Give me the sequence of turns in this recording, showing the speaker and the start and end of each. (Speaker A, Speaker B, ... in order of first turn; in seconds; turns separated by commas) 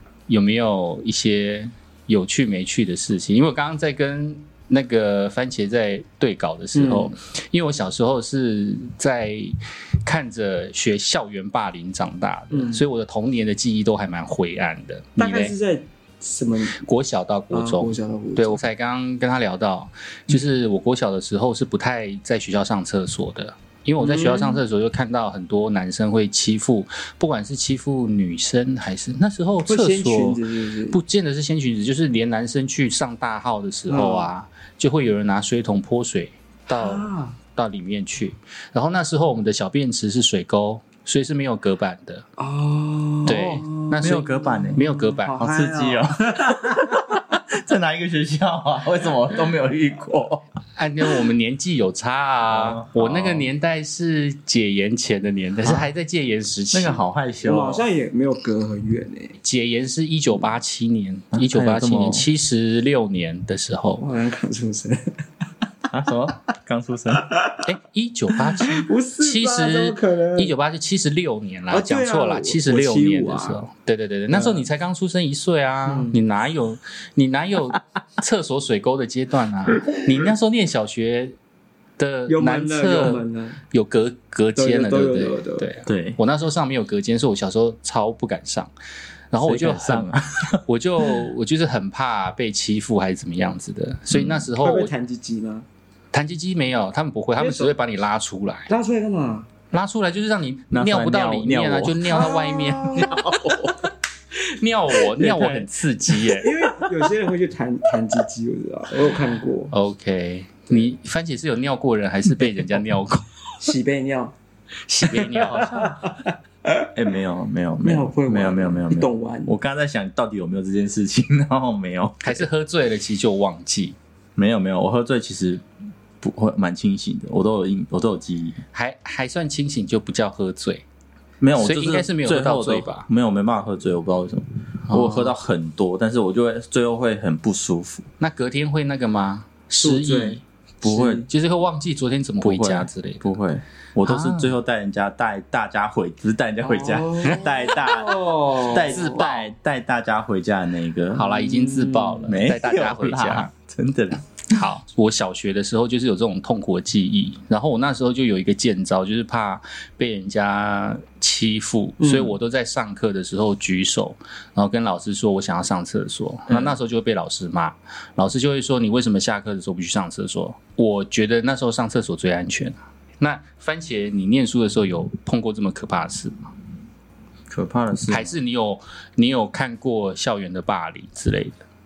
Speaker A: 0.3-15.5, Speaker B: 6.7-7.1, Speaker B: 12.5-12.8, Speaker B: 15.2-16.8, Speaker A: 16.7-42.2, Speaker B: 17.5-18.6, Speaker B: 24.0-24.6, Speaker B: 29.6-31.0, Speaker B: 33.9-34.3, Speaker B: 36.7-37.4, Speaker B: 42.4-47.2, Speaker A: 43.2-45.4, Speaker C: 43.2-50.5, Speaker A: 50.8-57.0, Speaker C: 52.5-53.5, Speaker C: 56.7-57.8, Speaker B: 57.4-59.4, Speaker A: 59.4-64.0, Speaker C: 61.3-62.3, Speaker B: 64.0-65.0, Speaker C: 65.9-67.2, Speaker B: 67.2-67.6, Speaker A: 67.6-81.3, Speaker B: 68.4-70.5, Speaker B: 71.7-73.6, Speaker B: 74.3-74.6, Speaker B: 75.9-76.2, Speaker A: 82.0-88.7, Speaker B: 82.3-83.6, Speaker B: 84.5-85.7, Speaker C: 85.8-86.2, Speaker A: 89.3-90.1, Speaker C: 89.4-91.3, Speaker A: 90.7-94.9, Speaker C: 94.1-94.5, Speaker B: 94.6-95.7, Speaker A: 96.1-98.7, Speaker B: 97.4-97.7, Speaker B: 98.7-99.5, Speaker A: 99.7-103.1, Speaker C: 100.7-102.2, Speaker B: 102.0-103.2, Speaker C: 102.9-103.9, Speaker A: 104.3-106.5, Speaker C: 105.2-105.6, Speaker B: 106.2-109.7, Speaker A: 109.7-113.3, Speaker B: 113.6-114.3, Speaker A: 114.9-116.0, Speaker B: 115.1-116.9, Speaker C: 116.9-122.5, Speaker B: 117.8-119.5, Speaker A: 122.2-124.0, Speaker C: 124.3-125.6, Speaker C: 126.2-128.6, Speaker A: 128.7-130.8, Speaker C: 131.4-138.1, Speaker A: 131.6-133.1, Speaker A: 134.9-135.3, Speaker A: 138.2-143.2, Speaker B: 139.8-140.4, Speaker C: 140.8-141.3, Speaker C: 142.4-151.3, Speaker A: 144.0-144.5, Speaker B: 146.6-149.2, Speaker A: 148.7-149.5, Speaker A: 151.1-153.5, Speaker B: 151.3-152.3, Speaker C: 152.2-154.4, Speaker A: 154.5-176.5, Speaker B: 162.0-162.4, Speaker C: 166.5-166.8, Speaker C: 177.5-178.3, Speaker A: 178.1-181.6